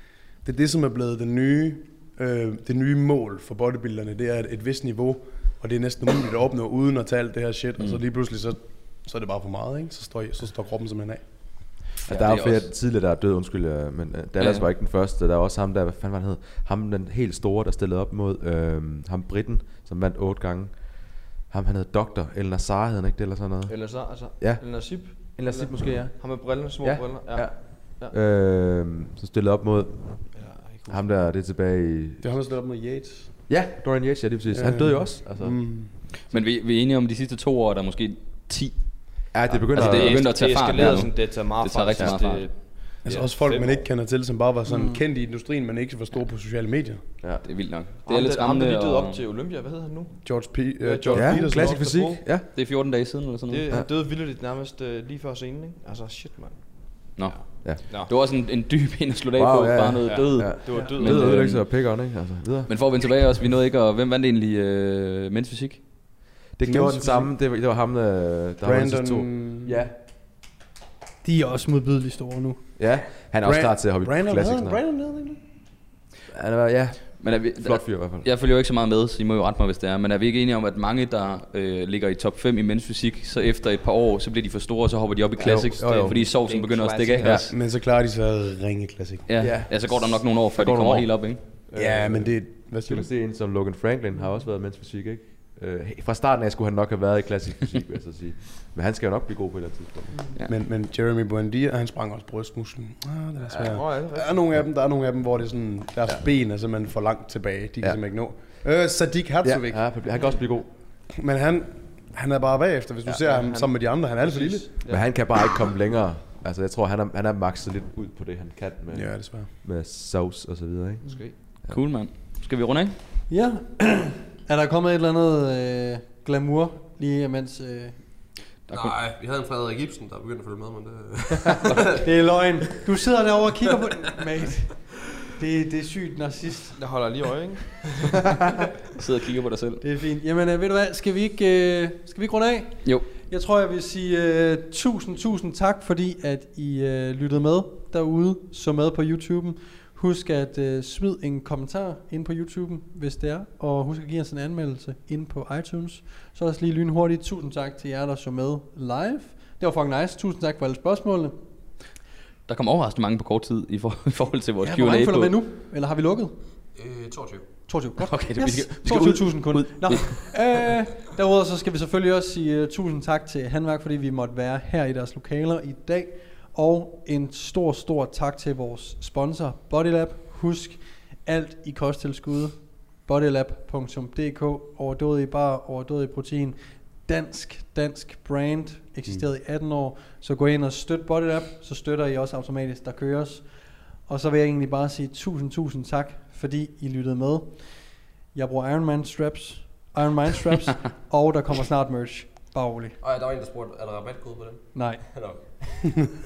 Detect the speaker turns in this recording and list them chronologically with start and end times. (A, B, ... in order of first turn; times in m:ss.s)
0:00.4-0:11.8 A
0:12.1-0:12.7 B
0:12.1-0:32.2 C
0:14.4-0:14.7 B
0:23.7-0:28.2 D
0:30.3-0:31.1 D
0:32.2-0:33.4 A
0:33.5-0:35.8 C
0:34.5-0:35.9 A
0:36.3-0:42.6 B
0:39.3-0:41.1 C
0:39.5-0:43.9 D
0:42.0-0:42.2 C
0:43.0-0:47.1 A
0:44.7-0:45.0 E
0:47.4-0:49.2 B
0:48.0-0:50.2 D
0:50.2-0:51.9 A
0:50.8-0:52.2 D
0:51.1-0:52.4 C
0:52.5-0:53.7 B
0:53.5-0:58.1 D
0:57.2-1:02.0 B
0:59.4-1:02.8 C
1:00.0-1:01.6 D
1:02.7-1:06.2 B
1:06.6-1:10.0 C
1:06.6-1:07.3 A
1:08.6-1:09.8 A
1:11.2-1:12.6 E
1:12.8-1:14.8 C
1:13.4-1:15.4 A
1:16.3-1:18.3 C
1:17.2-1:27.5 B
1:25.4-1:26.2 C
1:26.0-1:27.4 D
1:27.2-1:29.3 A
1:29.3-1:31.4 B
1:29.4-1:40.2 C
1:31.8-1:33.1 A
1:40.5-1:50.0 A
1:43.5-1:44.4 D
1:49.4-1:50.7 C
1:51.1-1:54.7 A
1:53.1-1:55.1 D
1:54.9-2:01.8 C
1:58.9-1:59.5 A
2:01.0-2:01.4 D
2:01.6-2:03.0 B
2:03.3-2:08.2 E
2:08.7-2:08.9 B
2:08.7-2:12.0 F
2:12.0-2:16.8 E
2:16.8-2:17.7 D
2:19.0-2:19.8 B
2:19.8-2:41.4 E
2:42.5-2:45.4 B
2:44.6-2:46.4 E
2:46.8-2:47.5 F
2:47.7-3:23.0 E
2:48.0-2:50.3 B
3:23.0-3:26.1 F
3:24.7-3:25.1 E